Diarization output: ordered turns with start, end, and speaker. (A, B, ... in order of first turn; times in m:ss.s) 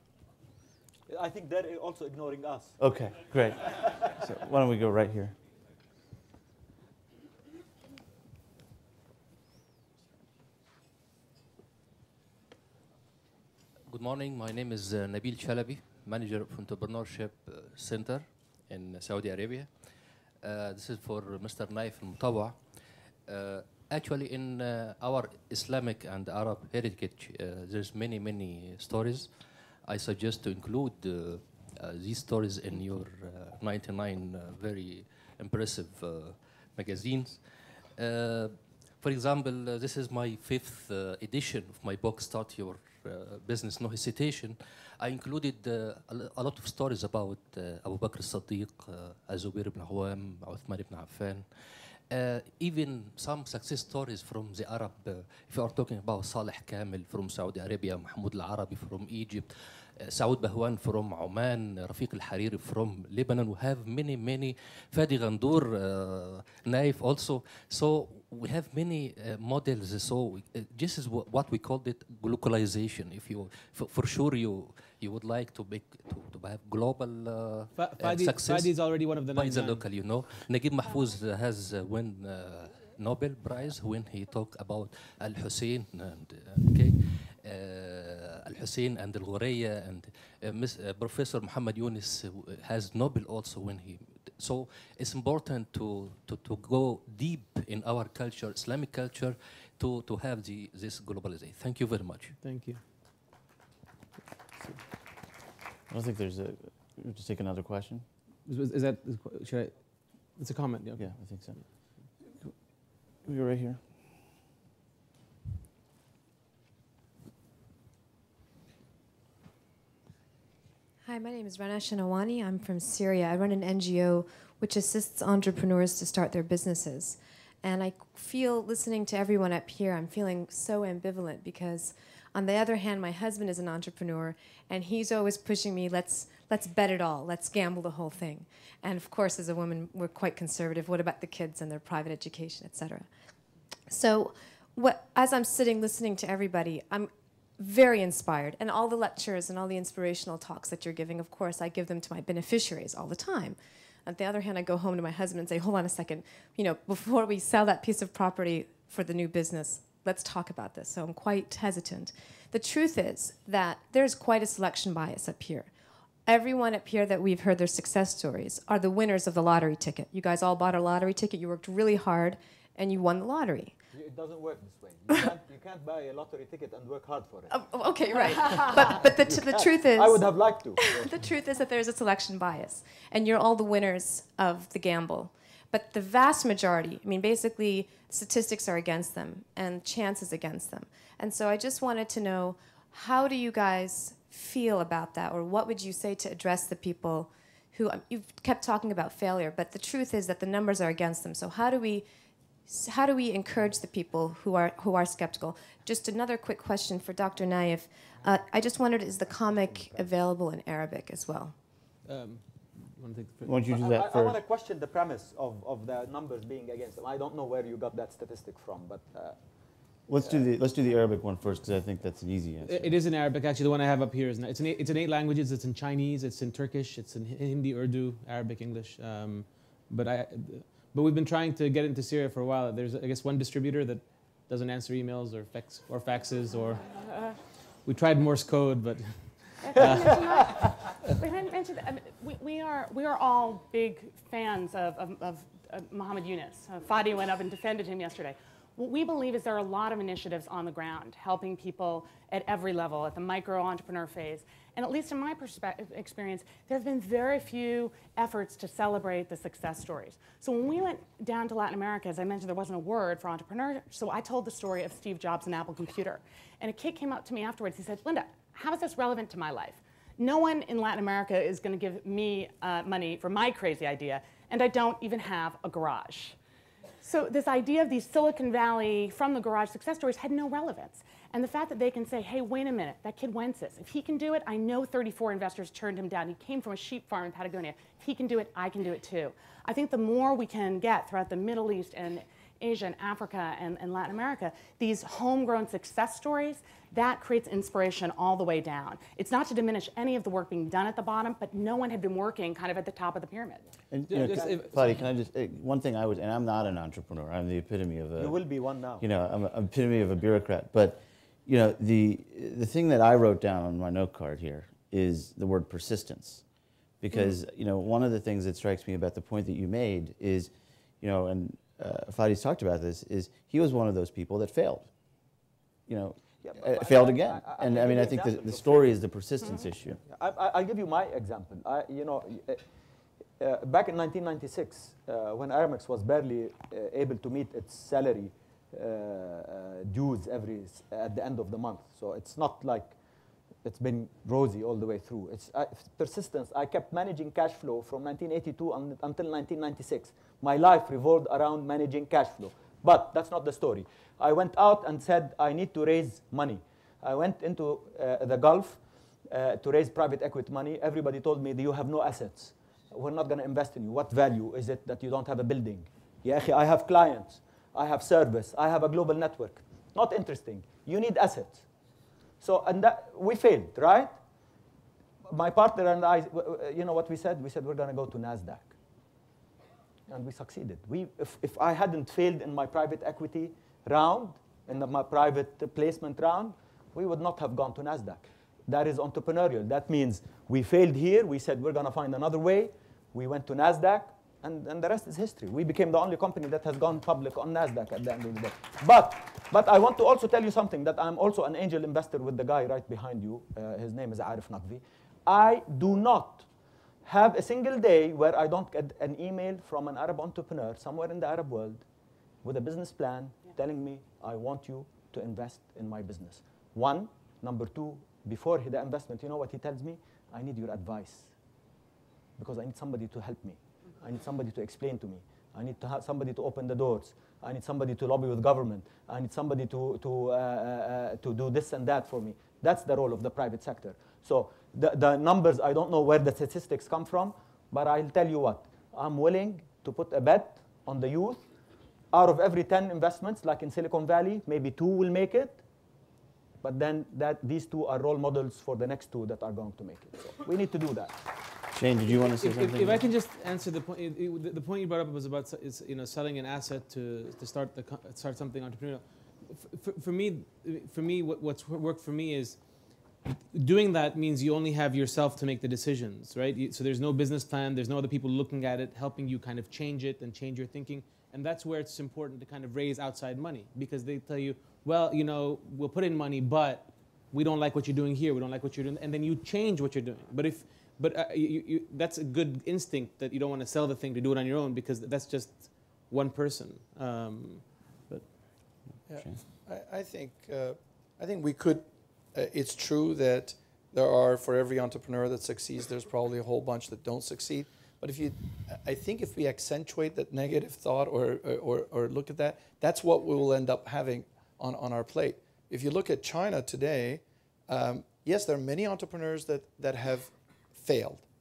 0:01.1-0:02.8 A
0:02.8-0:05.4 B
0:13.9-1:42.4 C
1:17.8-1:19.8 D
1:42.4-1:42.8 D
1:45.9-1:48.0 B
1:48.5-1:49.7 D
1:50.4-1:51.6 D
1:51.0-1:51.6 B
1:53.2-1:53.8 B
2:01.0-2:23.1 E
2:23.9-2:45.7 E
2:46.2-2:53.7 E
2:53.9-2:57.5 A
2:57.5-3:22.0 E
2:58.2-3:01.1 A
3:22.7-3:31.5 E
3:29.5-3:30.1 A
3:32.1-3:33.5 D
3:33.4-3:34.4 B
3:33.7-3:39.4 A
3:40.1-3:42.9 B
3:42.6-3:56.9 D
3:57.8-4:00.9 D
3:59.6-4:36.4 F
4:37.0-5:03.6 F
5:03.9-5:08.4 B
5:04.1-5:04.8 D
5:04.2-5:04.6 A
5:08.2-5:09.0 A
5:09.0-5:16.4 B
5:17.0-5:24.9 B
5:25.9-5:30.0 B
5:26.4-5:32.6 A
5:33.4-5:43.0 A
5:43.6-6:11.6 A
6:12.4-6:14.2 A
6:15.2-6:18.7 A
6:20.1-6:46.5 A
6:47.0-6:51.8 A
6:52.4-7:01.3 A
7:02.4-7:21.4 A
7:22.1-7:25.6 A
7:26.6-7:31.1 A
7:31.7-7:33.0 B
7:32.4-7:42.6 D
7:43.2-8:07.7 D
8:09.1-8:31.2 G